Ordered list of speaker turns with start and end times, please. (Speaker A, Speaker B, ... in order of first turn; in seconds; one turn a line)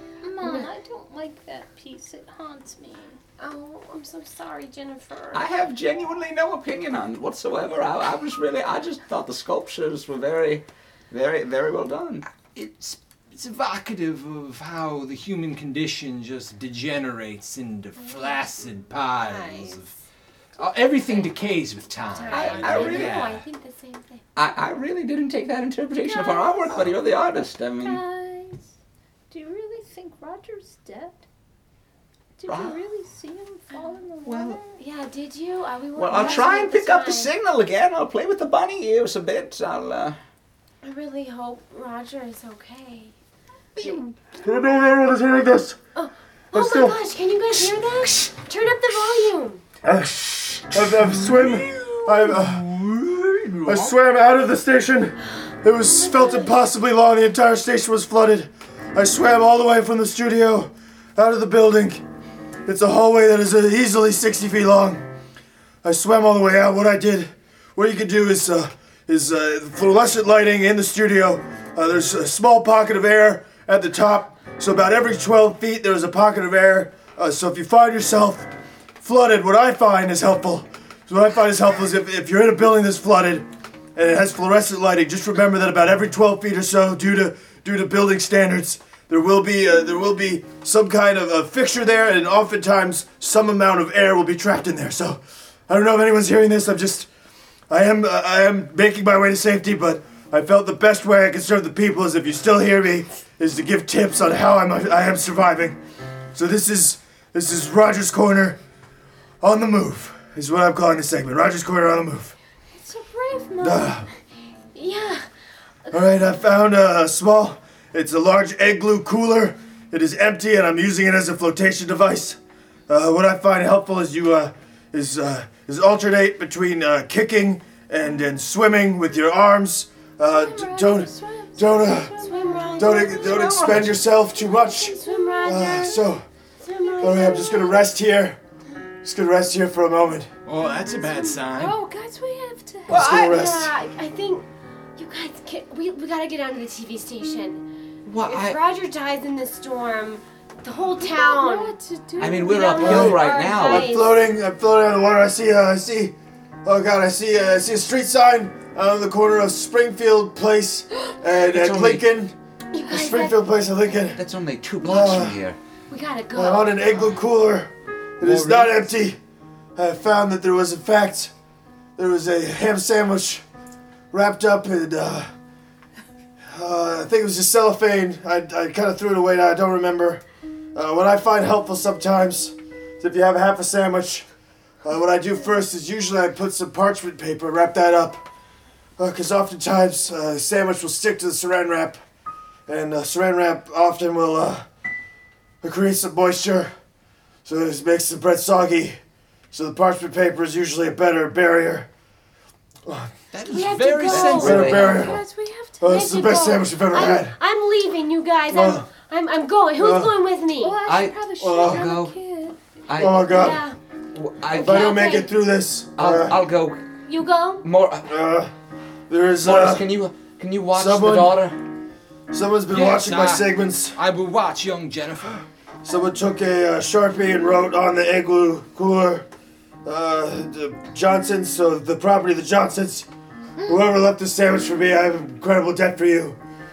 Speaker A: 0.2-3.2
Speaker B: 0.4-0.7
Speaker B: 3.4-5.4
Speaker C: 5.3-12.2
Speaker D: 12.4-19.9
Speaker B: 18.0-19.8
Speaker D: 20.6-23.4
Speaker B: 20.6-21.3
Speaker B: 21.9-24.2
Speaker C: 22.3-23.2
Speaker C: 24.4-28.0
Speaker A: 26.0-27.0
Speaker A: 27.8-28.7
Speaker A: 29.3-31.2
Speaker A: 32.4-34.8
Speaker C: 32.5-32.8
Speaker C: 34.2-34.6
Speaker B: 34.8-37.3
Speaker C: 36.0-40.2
Speaker A: 36.1-36.5
Speaker B: 40.8-43.1
Speaker E: 44.4-45.8
Speaker B: 45.9-49.6
Speaker E: 46.5-47.0
Speaker E: 49.8-52.6
Speaker D: 51.1-53.9
Speaker E: 53.6-62.0
Speaker B: 55.8-56.6
Speaker E: 62.6-65.0
Speaker E: 65.8-78.5
Speaker E: 79.0-97.1
Speaker E: 97.7-105.8
Speaker E: 106.3-108.6
Speaker E: 109.4-112.3
Speaker B: 112.7-114.1
Speaker E: 113.6-114.1
Speaker B: 114.7-115.3
Speaker E: 115.9-132.1
Speaker A: 130.3-133.7
Speaker B: 132.2-137.8
Speaker E: 132.8-136.2
Speaker D: 133.7-134.0
Speaker E: 137.0-138.4
Speaker E: 139.0-140.3
Speaker D: 140.4-141.8
Speaker A: 141.5-143.1
Speaker E: 142.9-143.7
Speaker B: 142.9-144.4
Speaker B: 145.0-147.6
Speaker C: 148.0-148.6
Speaker B: 148.2-154.1
Speaker A: 150.9-152.8
Speaker C: 152.2-153.9
Speaker E: 152.8-162.3
Speaker C: 161.5-162.1
Speaker B: 162.7-163.4
Speaker E: 162.9-164.2
Speaker C: 164.2-165.6
Speaker E: 164.8-165.4
Speaker B: 165.9-167.2
Speaker E: 166.3-169.2
Speaker E: 169.8-171.3
Speaker E: 171.9-173.4
Speaker E: 174.1-175.3
Speaker E: 176.4-180.2
Speaker E: 180.7-184.3
Speaker E: 184.8-188.3
Speaker E: 189.0-192.0
Speaker E: 192.7-194.7
Speaker E: 195.6-196.7
Speaker E: 197.4-199.0
Speaker E: 199.5-201.9
Speaker E: 202.8-203.1
Speaker D: 203.3-204.9
Speaker B: 203.5-210.8
Speaker C: 204.0-205.1
Speaker E: 204.4-205.2
Speaker A: 204.9-205.8
Speaker E: 205.8-207.3
Speaker E: 208.5-208.9
Speaker E: 209.8-210.2
Speaker A: 210.5-212.6
Speaker C: 210.8-212.2
Speaker E: 211.4-211.9
Speaker C: 212.9-213.2
Speaker E: 213.0-213.6
Speaker B: 213.2-213.8
Speaker C: 214.1-215.0
Speaker B: 214.5-215.3
Speaker E: 214.5-216.4
Speaker C: 216.0-216.8
Speaker B: 217.1-217.7
Speaker C: 217.6-218.1
Speaker E: 218.0-218.5
Speaker E: 219.1-219.9
Speaker C: 219.4-221.6
Speaker E: 220.7-221.4
Speaker E: 222.3-224.0
Speaker D: 222.7-225.4
Speaker E: 225.8-229.3
Speaker E: 229.8-233.1
Speaker E: 233.7-236.4